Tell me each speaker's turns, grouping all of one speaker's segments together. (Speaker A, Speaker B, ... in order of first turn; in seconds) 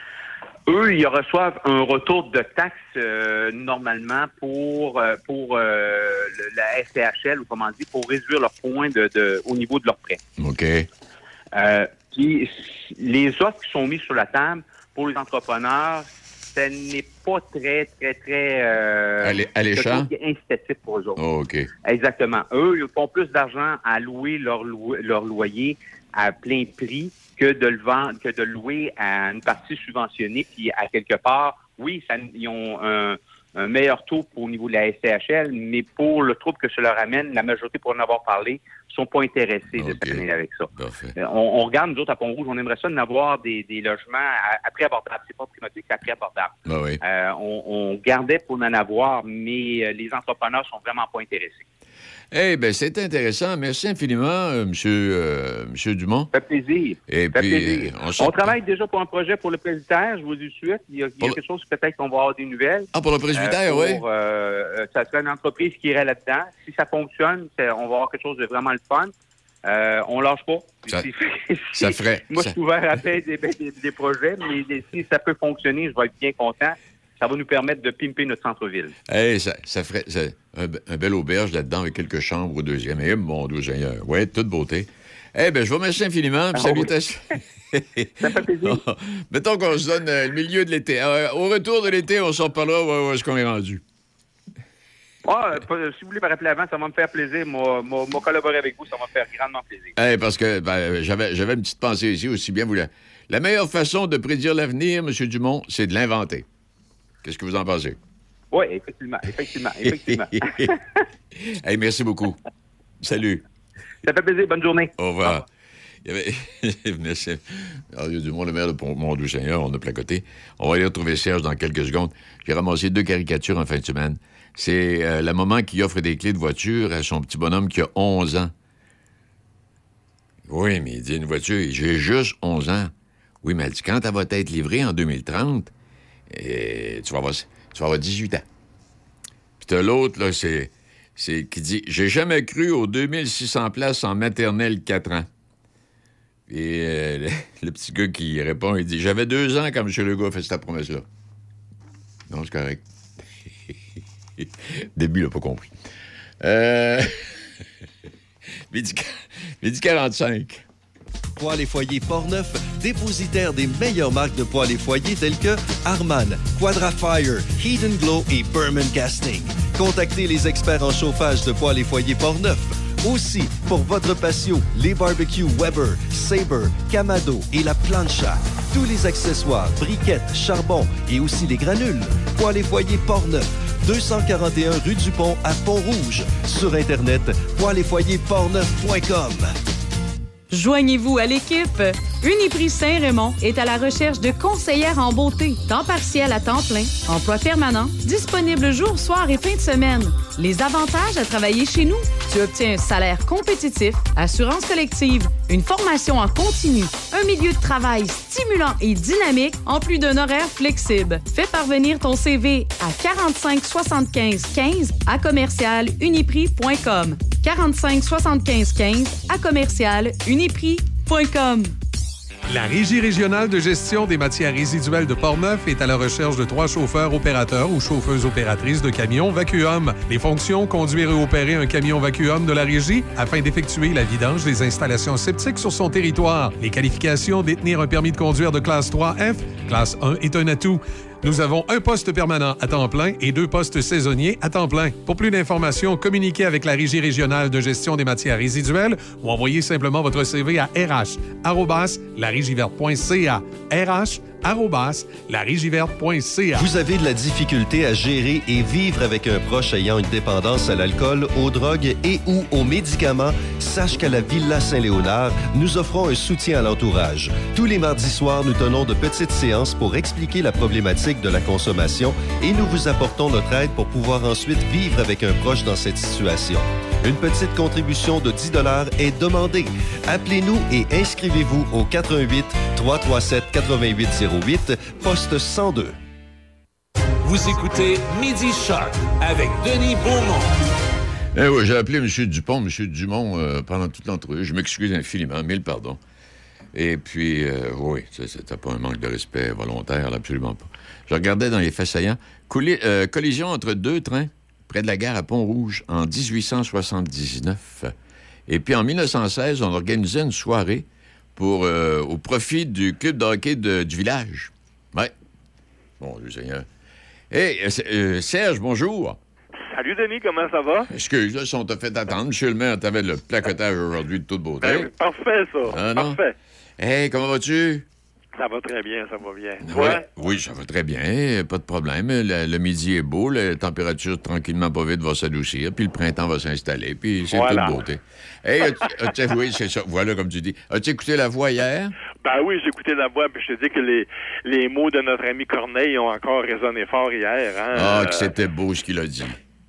Speaker A: 0.7-10.2, 11.5-21.2, 21.8-51.6, 56.3-69.1, 69.6-78.9, 86.5-86.9, 88.2-88.8, 95.2-99.9, 108.5-110.8, 114.0-115.4
Speaker B: 10.4-10.9, 19.2-20.1, 21.2-21.7, 39.7-41.1, 46.6-47.0, 52.3-56.3, 57.1-58.5, 62.9-64.0, 71.8-72.5, 79.1-93.8, 100.0-106.4, 107.2-108.0, 109.8-110.7, 111.3-112.4, 113.0-113.4, 115.0-115.4, 116.0-128.5, 130.4-132.9, 133.4-135.7, 136.3-138.4, 139.6-145.3, 146.5-151.0, 152.3-152.8, 154.4-155.7, 156.4-157.1, 158.7-160.6, 291.3-296.0, 296.7-307.9, 308.5-310.8, 311.4-315.1, 316.0-316.6, 317.3-319.2, 320.9-324.9, 325.6-326.2, 326.8-327.9, 329.6-341.9, 347.7-349.4
Speaker C: 161.3-189.5, 256.6-285.9
Speaker D: 190.5-221.7
Speaker E: 222.5-256.7
Speaker F: 287.2-290.6
Speaker G: 319.6-320.9, 324.6-326.3, 328.4-330.1, 337.3-337.8, 338.7-339.1, 342.2-348.3